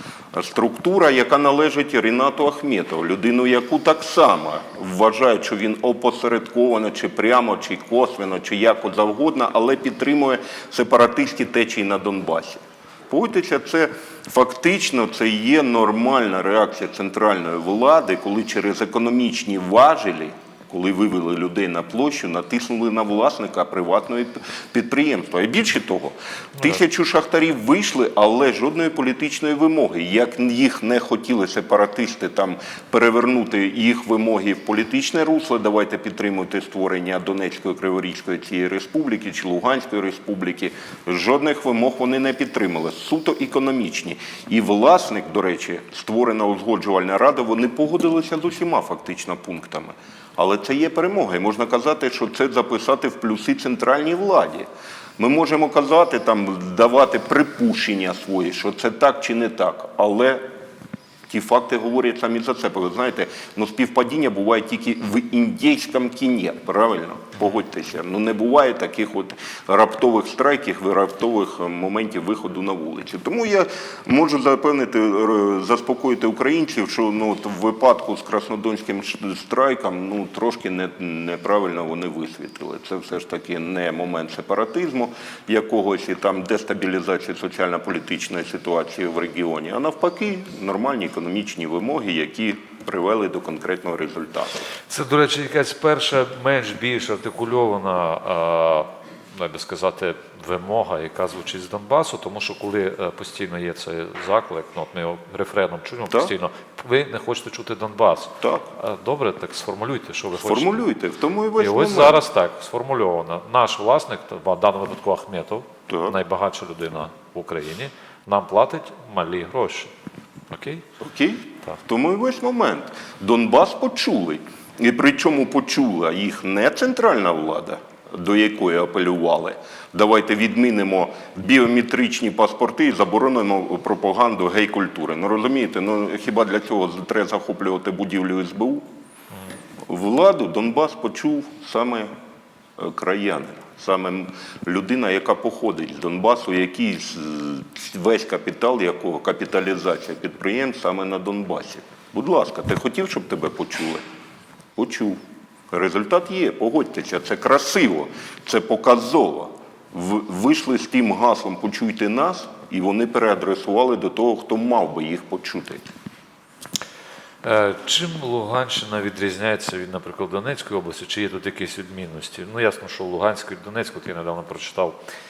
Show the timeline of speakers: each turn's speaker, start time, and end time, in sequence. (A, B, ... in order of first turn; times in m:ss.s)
0:00.3-0:54.7 A
0:55.2-1:00.4 A
1:01.3-1:34.7 A
1:34.9-1:50.8 B
1:50.3-1:52.2 A
1:51.6-1:59.9 B
1:55.9-1:56.2 A
2:00.5-2:00.8 B
2:01.0-2:18.8 A
2:19.9-2:22.1 A
2:22.8-2:34.0 A
2:34.8-2:35.2 A
2:35.7-2:45.9 A
2:47.4-2:55.0 B